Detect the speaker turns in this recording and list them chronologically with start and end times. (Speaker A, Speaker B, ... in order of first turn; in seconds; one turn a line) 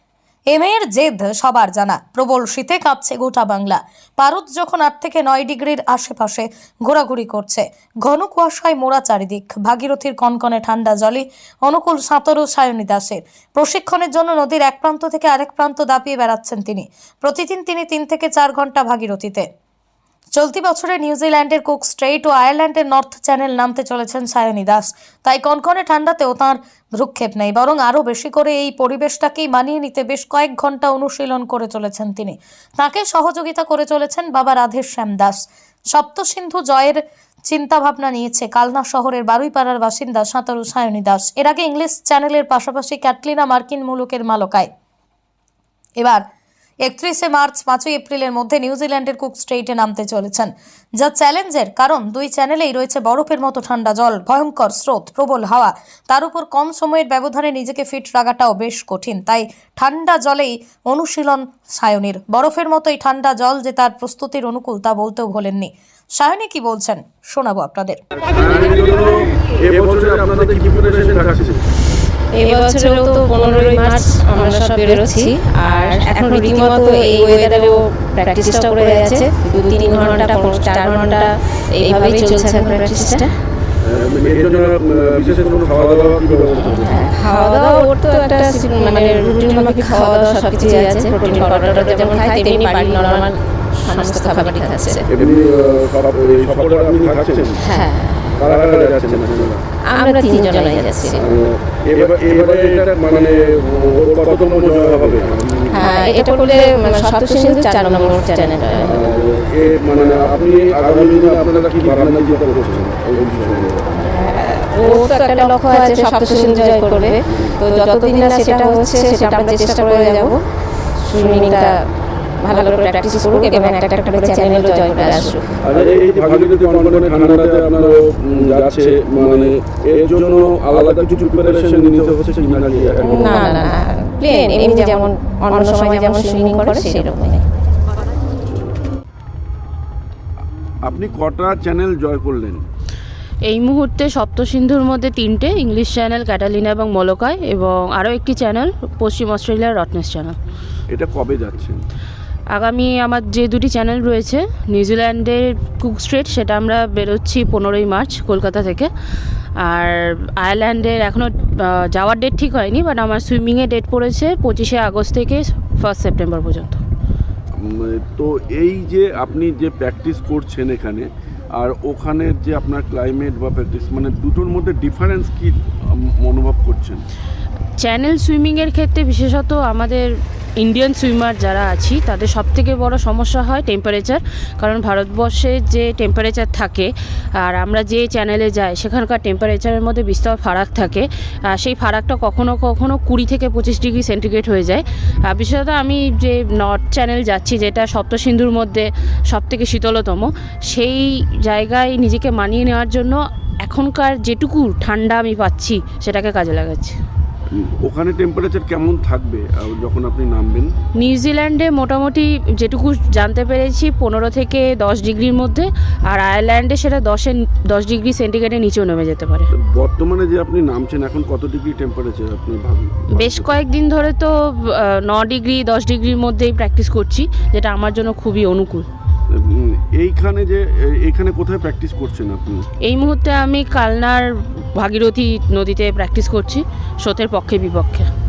Speaker A: 0.5-19.5
Speaker A: 20.4-44.7
Speaker A: 46.0-46.2
Speaker A: 46.8-68.0
Speaker B: 68.3-71.6
Speaker C: 72.3-83.3
Speaker B: 83.8-87.0
Speaker C: 86.8-95.0
Speaker B: 95.1-97.6
Speaker C: 97.6-98.3
Speaker B: 98.4-99.6
Speaker C: 99.9-101.2
Speaker B: 101.1-105.9
Speaker C: 105.7-109.0
Speaker B: 108.8-113.9
Speaker C: 114.0-120.4
Speaker B: 117.3-117.5
Speaker C: 121.0-121.8
Speaker C: 122.4-125.5
Speaker B: 125.6-133.7
Speaker C: 133.0-137.4
Speaker B: 140.8-142.6
Speaker D: 143.5-150.3
Speaker B: 150.9-151.8
Speaker D: 152.5-158.9
Speaker D: 159.6-166.8
Speaker B: 167.6-177.0
Speaker D: 177.8-207.0
Speaker B: 207.5-210.7
Speaker D: 211.0-219.5
Speaker B: 219.6-223.5
Speaker D: 223.2-228.9
Speaker B: 229.3-232.7
Speaker D: 232.8-238.1